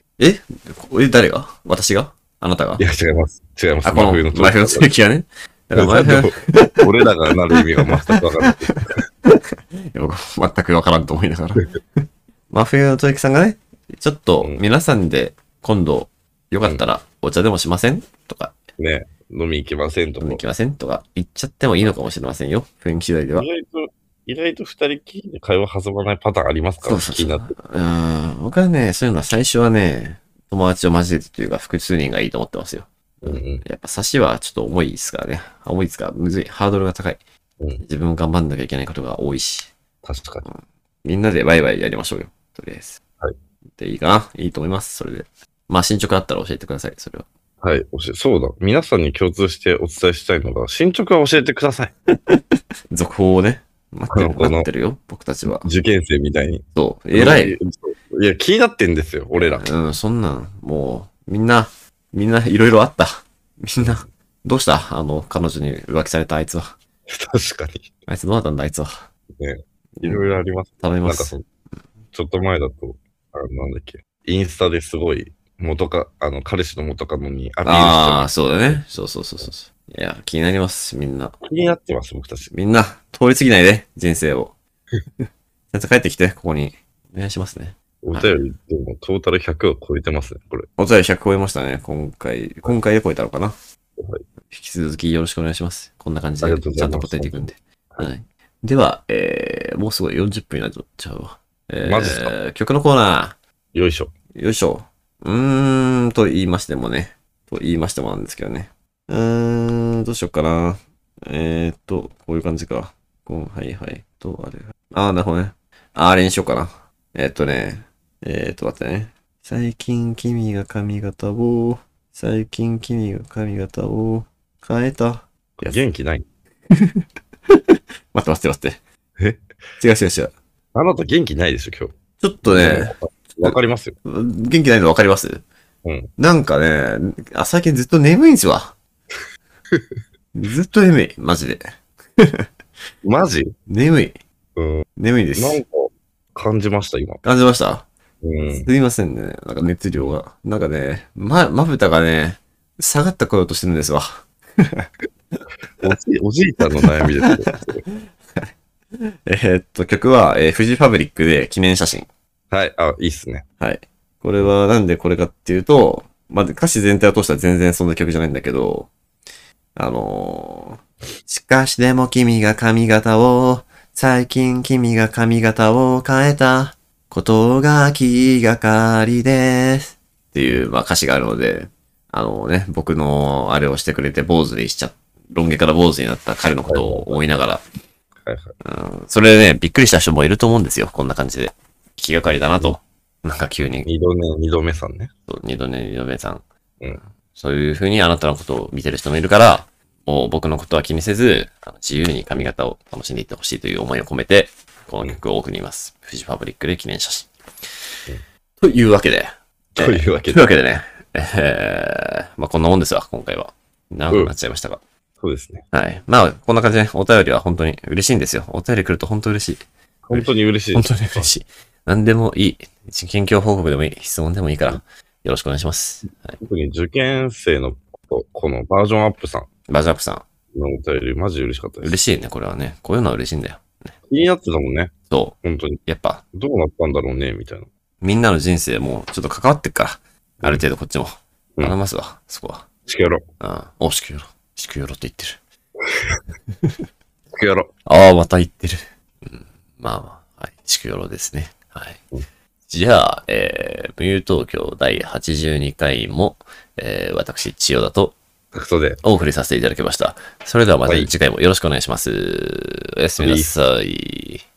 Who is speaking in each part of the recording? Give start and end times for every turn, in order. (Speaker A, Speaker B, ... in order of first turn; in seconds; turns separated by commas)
Speaker A: 0.2-2.8, Speaker B: 2.8-4.9, Speaker A: 3.8-6.9, Speaker B: 5.7-9.0, Speaker A: 7.9-18.6, Speaker B: 18.8-20.4, Speaker A: 20.2-23.5, Speaker B: 23.3-27.5, Speaker A: 26.8-37.2, Speaker B: 33.2-33.6, Speaker A: 37.8-39.7, Speaker B: 40.0-40.5, Speaker A: 40.5-43.0, Speaker A: 43.8-47.2, Speaker B: 47.6-51.9, Speaker A: 52.1-55.7, Speaker B: 54.1-54.7, Speaker B: 55.6-59.7, Speaker A: 56.7-57.6, Speaker A: 59.3-66.8, Speaker B: 63.8-64.1, Speaker B: 67.1-67.9, Speaker A: 68.1-69.0, Speaker B: 69.4-71.3, Speaker A: 70.0-70.2, Speaker A: 70.8-71.5, Speaker B: 72.1-78.8, Speaker A: 77.6-81.3, Speaker B: 81.4-82.5, Speaker A: 82.5-84.5, Speaker A: 85.7-88.4, Speaker B: 88.0-90.7, Speaker A: 90.8-93.5, Speaker B: 94.0-94.2, Speaker A: 94.5-103.3, Speaker B: 96.4-98.1, Speaker B: 101.8-102.3, Speaker B: 103.7-104.1, Speaker A: 104.3-125.8, Speaker B: 125.6-126.2, Speaker A: 126.7-128.8, Speaker B: 129.2-129.6, Speaker A: 129.8-130.3, Speaker B: 130.7-133.9, Speaker A: 132.2-135.4, Speaker B: 135.8-136.1, Speaker A: 136.2-138.8, Speaker A: 140.3-141.6, Speaker A: 142.2-142.5, Speaker B: 143.0-143.5, Speaker A: 143.7-144.2, Speaker B: 144.6-147.2, Speaker A: 145.0-145.6, Speaker A: 147.2-147.9, Speaker B: 148.2-148.7, Speaker A: 148.5-154.9, Speaker B: 155.8-157.8, Speaker A: 156.8-157.3, Speaker A: 157.9-162.1, Speaker B: 162.5-163.4, Speaker A: 163.6-168.9, Speaker A: 169.8-187.6, Speaker B: 186.6-187.2, Speaker B: 188.2-188.6, Speaker A: 188.6-193.9, Speaker B: 193.8-195.1, Speaker A: 195.3-196.4, Speaker A: 197.3-207.7, Speaker A: 208.6-214.8, Speaker B: 209.7-210.5, Speaker B: 215.2-215.6, Speaker A: 215.7-226.4, Speaker B: 220.1-221.3, Speaker B: 226.4-229.5, Speaker A: 229.7-230.2, Speaker B: 230.5-232.0, Speaker A: 231.8-233.9, Speaker B: 234.1-235.8, Speaker A: 235.1-236.2, Speaker B: 236.3-237.7, Speaker A: 238.0-242.7, Speaker B: 242.9-243.2, Speaker A: 243.4-245.4, Speaker B: 245.8-246.2, Speaker B: 247.3-247.7, Speaker A: 247.8-252.0, Speaker A: 252.7-258.2, Speaker B: 258.5-259.0, Speaker A: 259.0-264.4, Speaker B: 263.2-263.5